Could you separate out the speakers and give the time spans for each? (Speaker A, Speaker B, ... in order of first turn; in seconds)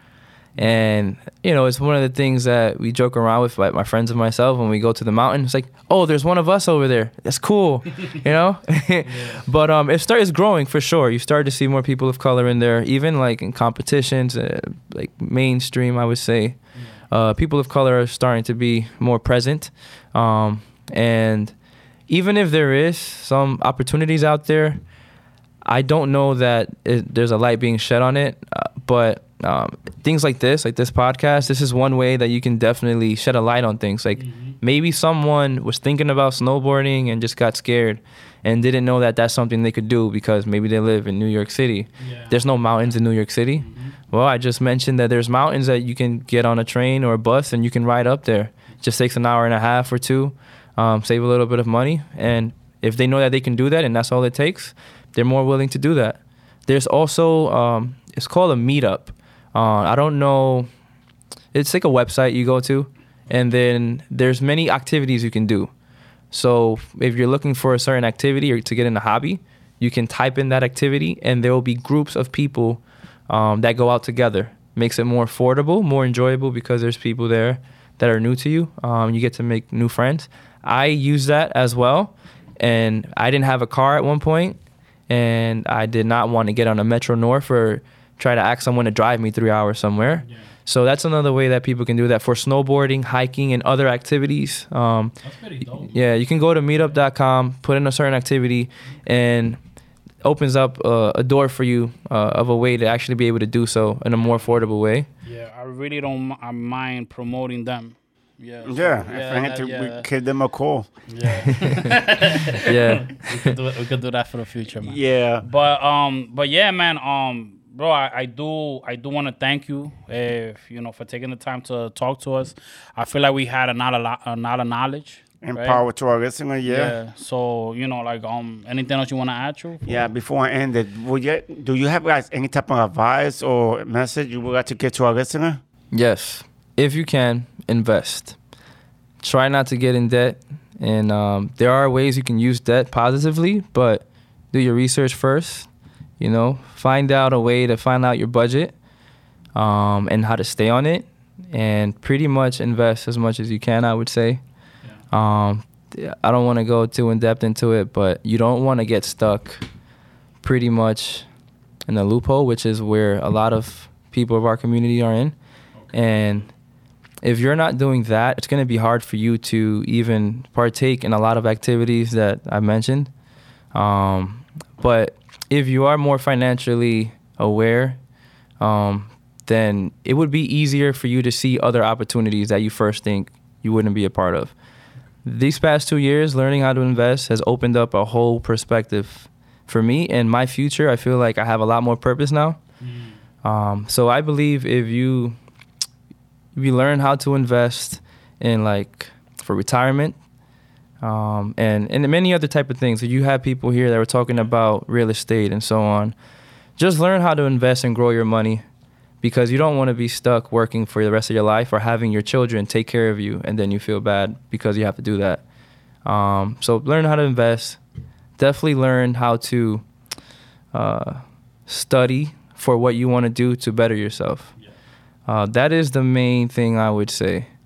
Speaker A: 0.6-21.5, 22.1-24.8, 25.6-60.7, 61.5-65.7, 66.3-84.6, 85.1-95.2, 95.8-99.6, 100.2-105.1, 112.6-113.5, 135.9-138.4, 139.2-145.7, 146.2-148.7, 149.5-154.4, 155.1-159.6, 160.4-161.3, 161.9-165.3, 165.9-166.5, 167.2-173.1, 173.7-178.0, 178.6-184.5, 185.2-192.6, 193.4-195.4, 196.5-200.2, 201.0-206.1, 206.8-208.6, 209.2-215.4, 216.0-217.8, 218.4-219.8, 220.7-224.5, 225.2-227.5
Speaker B: 9.0-9.4, 16.7-17.0, 34.1-34.6, 42.0-42.4, 43.6-44.0, 90.2-90.5, 95.2-96.0, 105.2-110.0, 111.1-125.8, 126.6-130.0, 192.8-193.2
Speaker C: 108.6-110.9, 114.8-115.4, 125.4-126.9, 129.8-135.6